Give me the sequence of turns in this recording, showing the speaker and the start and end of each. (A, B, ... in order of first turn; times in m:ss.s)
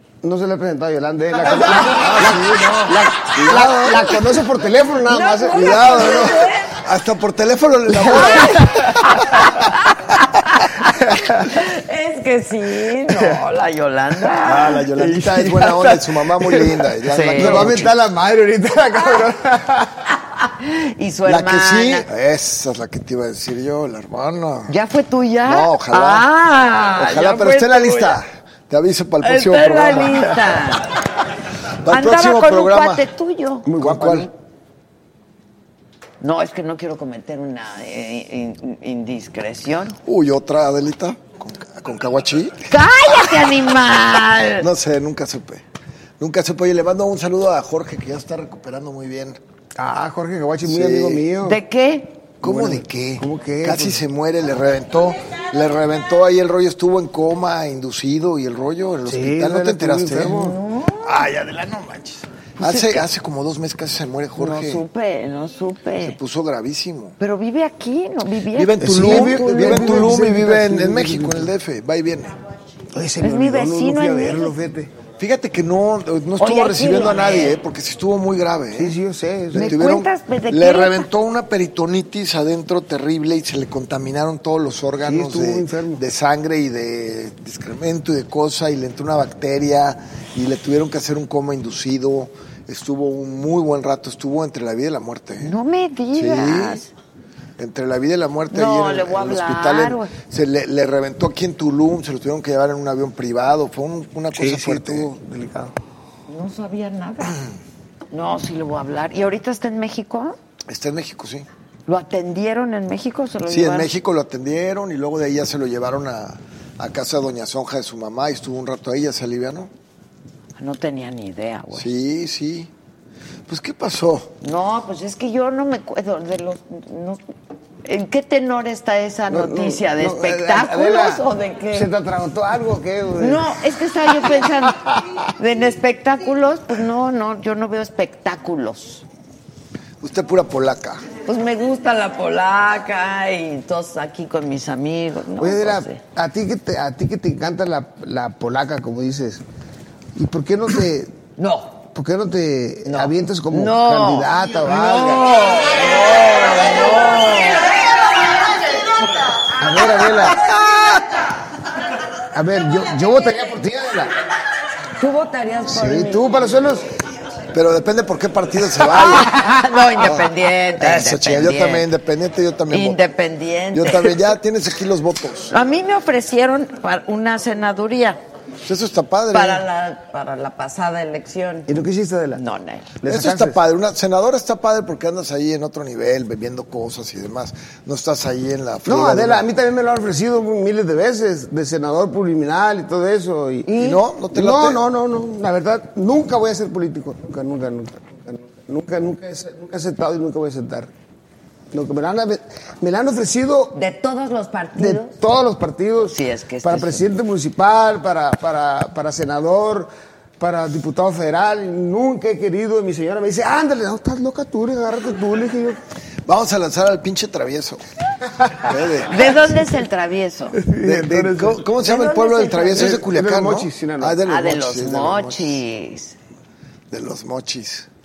0:00.2-0:06.3 A
0:01.4-0:04.3 B
0:05.1-0:06.8 C
0:05.5-0:09.7 B
0:08.0-0:14.8 C
0:11.1-0:11.4 A
0:13.1-0:13.4 A
0:14.4-0:18.0 B
0:14.9-0:20.0 A
0:17.1-0:17.9 C
0:20.4-0:22.1 C
0:21.3-0:24.8 B
0:24.7-0:28.2 C
0:25.4-0:26.3 B
0:27.0-0:30.6 B
0:29.2-0:31.0 C
0:31.8-0:33.0 B
0:31.9-0:33.7 C
0:33.6-0:34.3 A
0:33.8-0:34.3 B
0:36.2-0:40.0 C
0:40.0-0:42.6 B
0:42.7-0:44.7 C
0:44.6-0:45.6 B
0:46.2-0:49.4 B
0:49.8-0:51.6 A
0:50.6-0:51.2 B
0:51.4-0:52.2 C
0:52.4-1:00.4 B
0:52.4-0:54.0 A
0:59.1-1:00.6 A
1:00.2-1:01.2 C
1:01.0-1:04.8 B
1:02.6-1:03.1 C
1:04.4-1:06.2 C
1:06.0-1:07.2 B
1:07.2-1:10.2 C
1:08.5-1:12.4 B
1:08.8-1:11.5 A
1:12.9-1:14.9 A
1:13.2-1:14.6 C
1:15.2-1:19.0 B
1:16.4-1:17.6 C
1:18.8-1:19.8 A
1:19.5-1:21.1 C
1:19.5-1:35.6 B
1:25.0-1:26.0 A
1:35.4-1:36.9 C
1:36.1-1:36.8 B
1:37.6-1:45.1 B
1:38.5-1:40.1 C
1:44.3-1:45.8 A
1:46.3-1:47.4 C
1:48.1-1:50.4 C
1:50.7-1:51.5 B
1:51.9-1:53.9 C
1:53.5-1:59.7 B
2:00.6-2:01.9 C
2:01.7-2:02.7 B
2:03.5-2:04.3 B
2:04.4-2:07.2 C
2:07.8-2:11.9 C
2:09.3-2:13.6 A
2:13.2-2:14.8 C
2:15.4-2:19.0 C
2:20.0-2:21.0 B
2:21.2-2:26.0 C
2:25.4-2:29.4 A
2:30.2-2:31.2 A
2:31.4-2:31.7 C
2:31.9-2:35.3 A
2:32.9-2:37.7 C
2:39.6-2:40.4 A
2:40.4-2:41.0 B
2:42.3-2:44.1 A
2:45.0-2:46.2 C
2:45.7-2:46.9 A
2:47.5-2:49.3 B
2:48.9-2:51.9 C
2:50.0-2:53.0 B
2:52.7-2:54.3 C
2:53.7-2:55.6 B
2:55.5-2:58.2 C
2:58.6-2:59.6 B
2:59.3-3:01.7 C
3:01.7-3:02.4 A
3:02.3-3:02.9 C
3:03.0-3:03.6 A
3:03.0-3:09.5 B
3:08.8-3:13.8 A
3:13.7-3:14.0 C
3:13.8-3:14.8 B
3:14.3-3:20.9 A
3:21.7-3:23.8 A
3:23.7-3:25.2 C
3:24.8-3:35.8 A
3:26.1-3:27.1 C
3:36.3-3:37.8 B
3:38.6-3:39.6 B
3:39.1-3:40.6 C
3:40.6-3:41.6 A
3:40.8-3:45.6 B
3:41.8-3:43.1 C
3:42.7-3:44.2 A
3:44.2-3:46.2 C
3:46.9-3:47.9 B